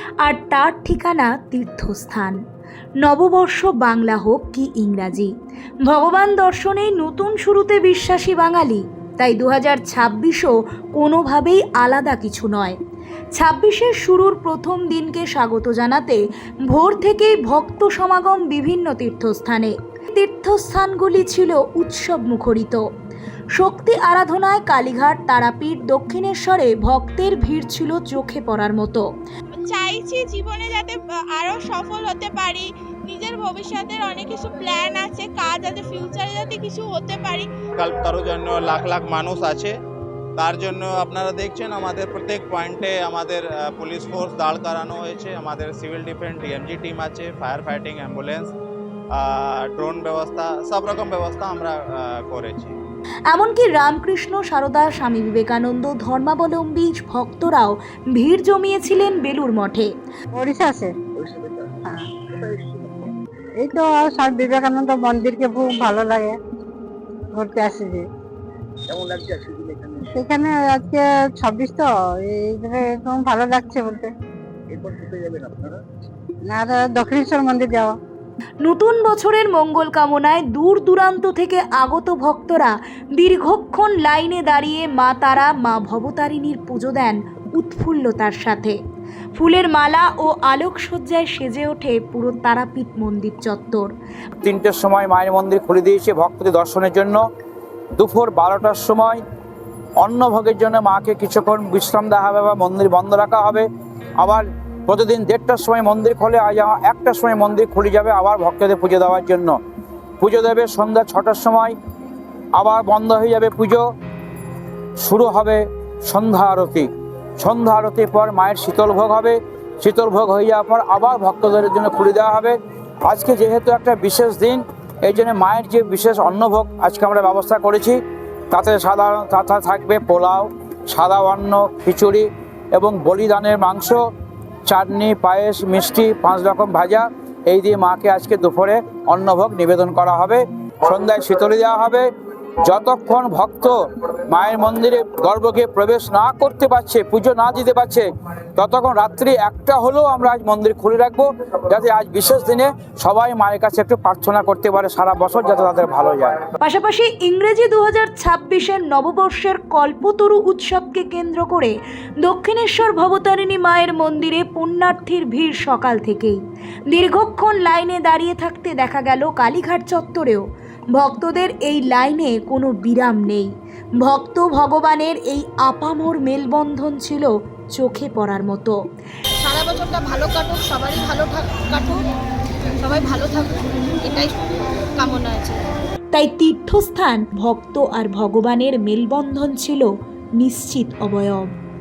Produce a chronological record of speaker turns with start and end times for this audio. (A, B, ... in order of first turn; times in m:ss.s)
0:00.2-0:02.4 A
0:03.0-0:05.3 A
0:05.8-0:12.8 A
0:13.3-0:22.8 A
0:23.5-0:29.0 A
0:29.5-0:37.5 B
0:37.8-0:39.7 C
0:40.4-0:48.5 C
0:49.1-0:52.8 C
0:53.3-0:59.9 A
1:00.3-1:00.9 D
1:01.2-1:01.8 E
1:02.3-1:03.1 E
1:03.6-1:06.4 D
1:07.3-1:08.0 D
1:08.9-1:10.1 E
1:10.1-1:14.1 D
1:14.7-1:15.8 E
1:16.4-1:18.0 D
1:18.6-1:28.8 A
1:29.4-1:33.9 A
1:34.4-1:37.2 F
1:38.0-1:39.2 F
1:40.0-1:43.7 F
1:44.2-1:49.6 F
1:50.2-1:51.8 F
1:52.6-1:53.8 F
1:55.0-1:56.9 F
1:57.4-2:08.0 F
2:08.5-2:14.0 F
2:14.7-2:22.1 F
2:22.6-2:36.5 F
2:36.6-2:53.5 A
2:54.0-2:58.8 A
2:59.4-3:02.1 G
3:02.8-3:04.4 G
3:05.0-3:05.7 G
3:06.1-3:11.5 A